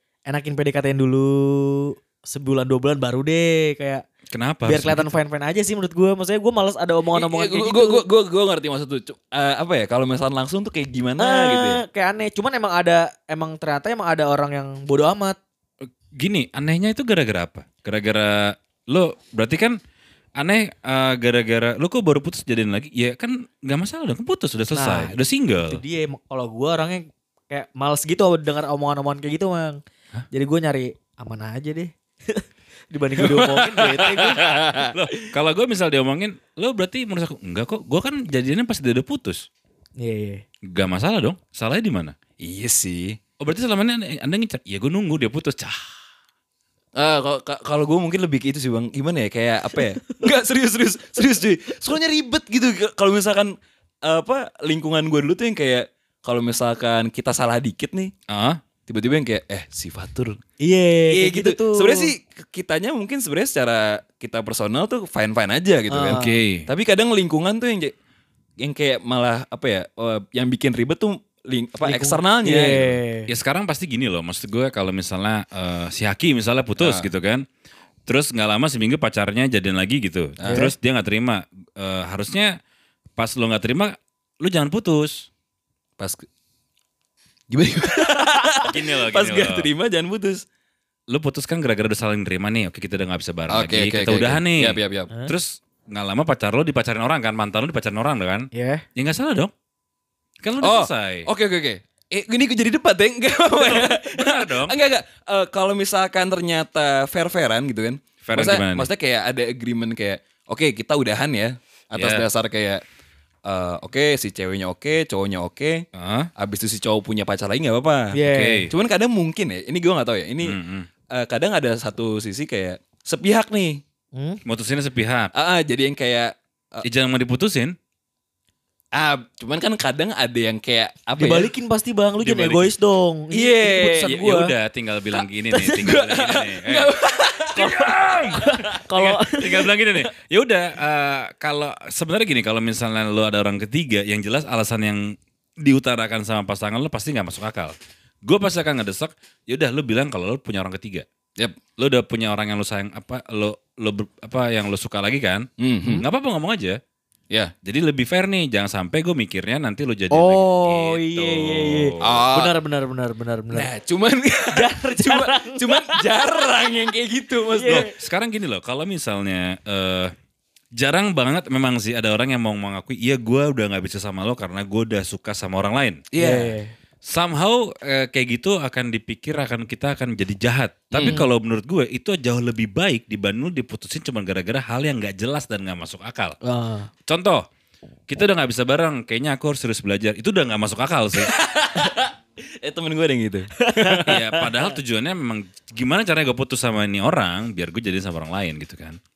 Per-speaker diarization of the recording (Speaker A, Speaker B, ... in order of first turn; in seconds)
Speaker A: 0.3-4.0, 4.7-8.0, 11.2-15.4, 24.7-29.8, 30.3-34.6, 40.0-40.4, 60.6-62.1, 65.9-66.4, 71.8-73.3, 80.5-80.7, 88.2-88.7, 98.5-98.8, 118.1-118.7, 124.2-124.4, 131.2-134.5, 137.6-139.7, 160.1-163.7, 164.5-166.0, 167.5-167.9, 176.2-176.7, 186.4-186.9, 193.6-194.6
Speaker B: 4.3-5.1, 15.8-19.8, 20.4-25.8, 34.4-39.5, 40.7-42.1, 43.4-45.8, 58.3-58.6, 66.1-66.7, 73.3-77.5, 78.1-82.5, 83.2-85.3, 88.6-89.7, 91.1-99.5, 100.4-101.3, 103.7-104.8, 108.2-108.9, 112.0-112.2, 116.0-116.3, 118.3-118.7, 120.4-120.9, 124.5-125.3, 126.8-127.8, 132.2-132.7, 134.0-136.9, 137.6-151.1, 151.8-156.8, 157.6-162.3, 167.7-170.1, 170.8-176.0, 177.1-186.4, 187.1-187.4, 188.1-191.3, 194.0-199.0
Speaker C: 7.1-11.8, 33.2-34.9, 42.4-43.2, 47.0-53.5, 54.0-58.1, 58.9-60.4, 61.1-67.9, 68.6-73.0, 76.8-77.1, 80.4-80.7, 86.0-86.2, 87.5-90.5, 93.5-95.1, 100.6-112.8, 113.5-115.8, 116.4-118.2, 118.7-120.6, 121.1-123.8, 125.3-126.8, 128.9-131.5, 133.3-134.2, 135.7-137.9, 155.6-156.0, 162.0-162.5, 163.5-167.9, 176.1-176.6, 180.9-181.2, 191.2-194.2